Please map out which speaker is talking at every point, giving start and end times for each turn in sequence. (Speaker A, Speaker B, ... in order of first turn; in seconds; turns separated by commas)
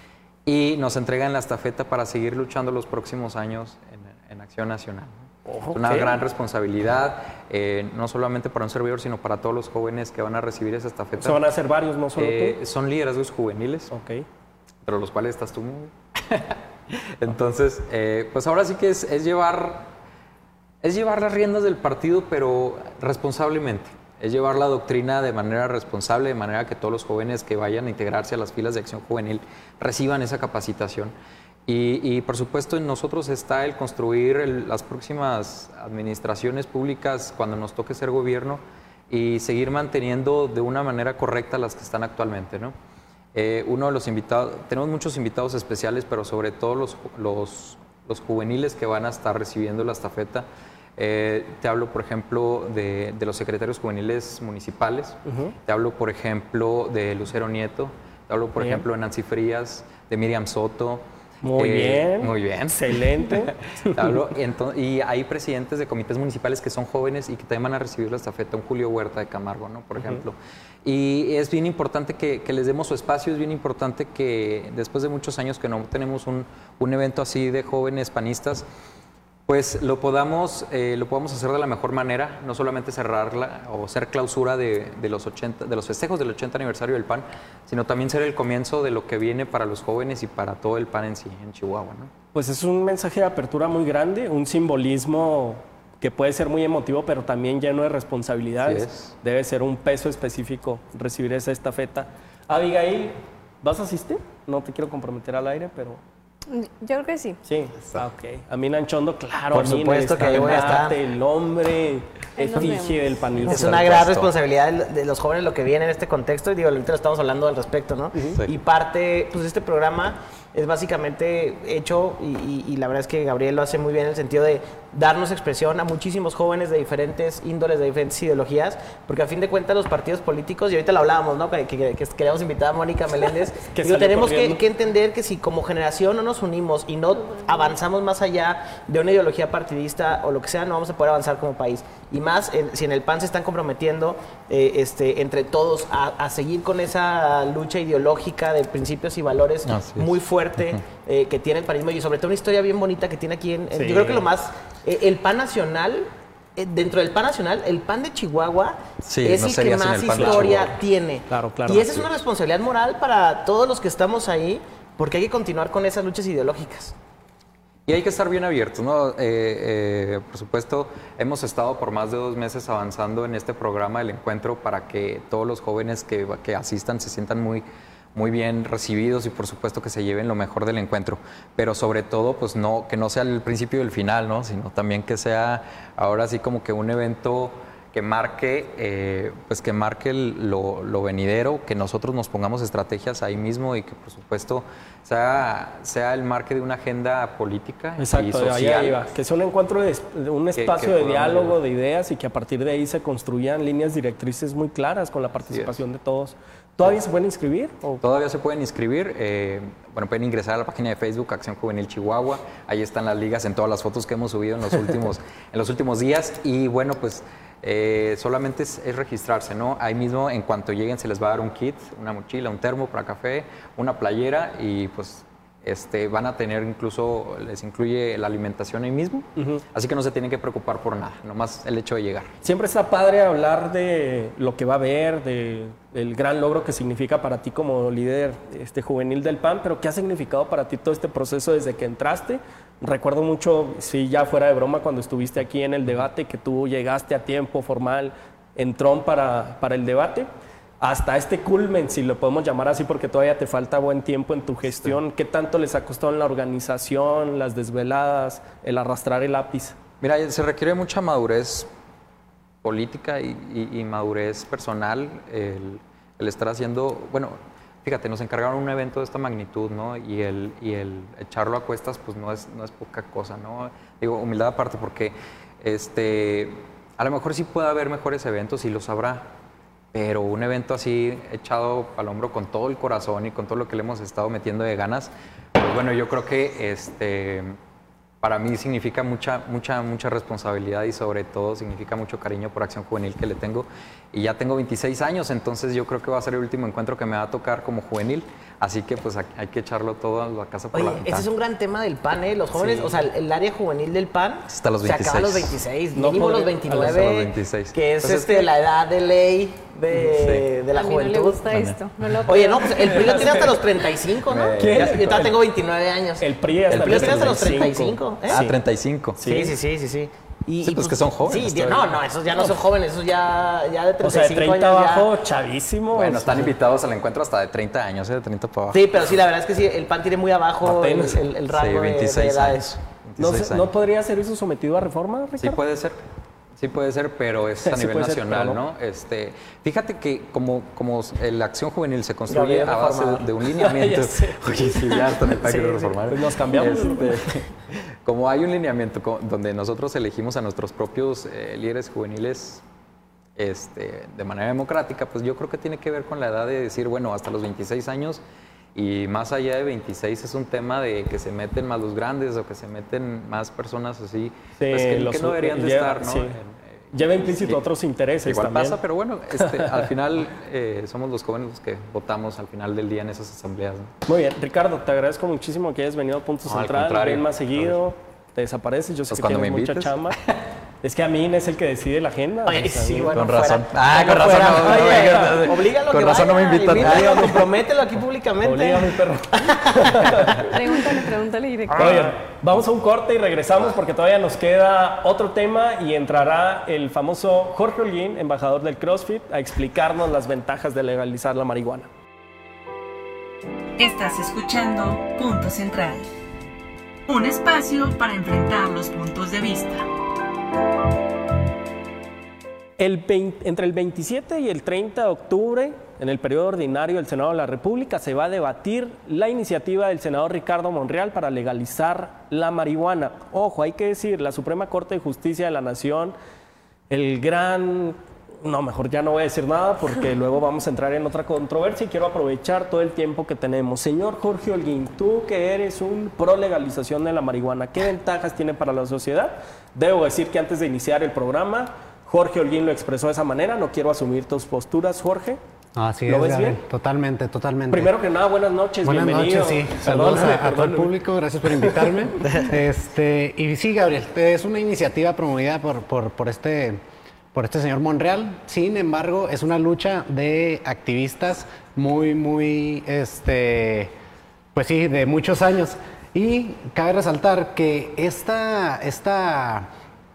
Speaker A: 0.5-11.4, Speaker B: 5.5-6.2, Speaker B: 11.2-12.6, Speaker A: 12.2-13.9, Speaker B: 13.9-14.2, Speaker A: 14.8-19.9, Speaker A: 20.8-31.1, Speaker A: 31.7-42.7, Speaker A: 43.3-50.5, Speaker A: 51.0-61.0, Speaker B: 55.3-55.5, Speaker B: 58.6-58.8, Speaker B: 61.4-64.2, Speaker A: 61.5-78.7, Speaker A: 79.5-92.1, Speaker B: 92.3-106.0, Speaker A: 98.6-99.1, Speaker C: 106.5-107.4, Speaker B: 107.5-114.0, Speaker D: 109.5-111.0, Speaker C: 112.4-113.7, Speaker D: 113.4-166.9, Speaker A: 113.5-114.3, Speaker B: 133.7-134.6, Speaker A: 149.7-150.8, Speaker B: 153.7-154.3, Speaker A: 159.0-160.7, Speaker B: 160.1-160.5, Speaker B: 161.3-162.1, Speaker A: 167.9-199.0, Speaker B: 198.0-208.0, Speaker A: 200.6-201.6, Speaker A: 205.5-205.8, Speaker A: 208.0-232.3, Speaker B: 229.4-229.6, Speaker B: 232.4-250.3, Speaker B: 250.8-259.8, Speaker A: 254.7-255.0, Speaker A: 260.0-261.7, Speaker A: 262.6-279.3, Speaker A: 279.9-287.6, Speaker A: 288.2-301.3, Speaker D: 300.7-311.5, Speaker B: 302.6-303.0, Speaker A: 304.5-305.6, Speaker B: 305.9-307.1, Speaker A: 306.7-308.5, Speaker A: 309.9-310.4, Speaker C: 310.7-313.5, Speaker A: 311.5-311.8, Speaker D: 312.2-318.6, Speaker B: 312.8-313.5, Speaker A: 314.2-315.0, Speaker B: 314.6-315.4, Speaker B: 316.2-318.4, Speaker A: 316.7-317.5, Speaker A: 318.3-319.2, Speaker B: 319.2-319.6, Speaker D: 319.2-325.1, Speaker A: 320.6-321.9, Speaker B: 324.0-326.5, Speaker A: 325.9-328.8, Speaker D: 328.7-332.8, Speaker B: 330.6-331.2, Speaker A: 331.5-333.7, Speaker B: 333.2-335.6, Speaker A: 335.4-336.0, Speaker A: 336.6-347.4, Speaker B: 337.6-338.6, Speaker D: 342.3-343.2, Speaker B: 343.5-347.4, Speaker A: 348.0-352.6, Speaker A: 353.4-358.2, Speaker A: 358.7-367.6, Speaker B: 364.6-366.4, Speaker B: 366.9-368.8, Speaker A: 368.2-373.9, Speaker B: 369.4-369.9, Speaker B: 374.1-380.2, Speaker A: 376.5-377.8, Speaker A: 379.1-380.3, Speaker B: 380.8-383.1, Speaker D: 382.4-390.3, Speaker A: 383.1-387.5, Speaker B: 384.1-385.5, Speaker B: 386.8-387.0, Speaker B: 388.4-390.5, Speaker C: 390.5-392.1, Speaker D: 391.7-392.2, Speaker B: 391.8-401.9, Speaker E: 403.8-406.0, Speaker E: 407.1-409.9, Speaker B: 412.8-426.1, Speaker B: 426.9-445.4, Speaker F: 445.8-447.9, Speaker B: 446.1-446.6, Speaker B: 447.7-452.3, Speaker F: 448.8-456.8, Speaker F: 457.3-463.9, Speaker F: 464.5-469.7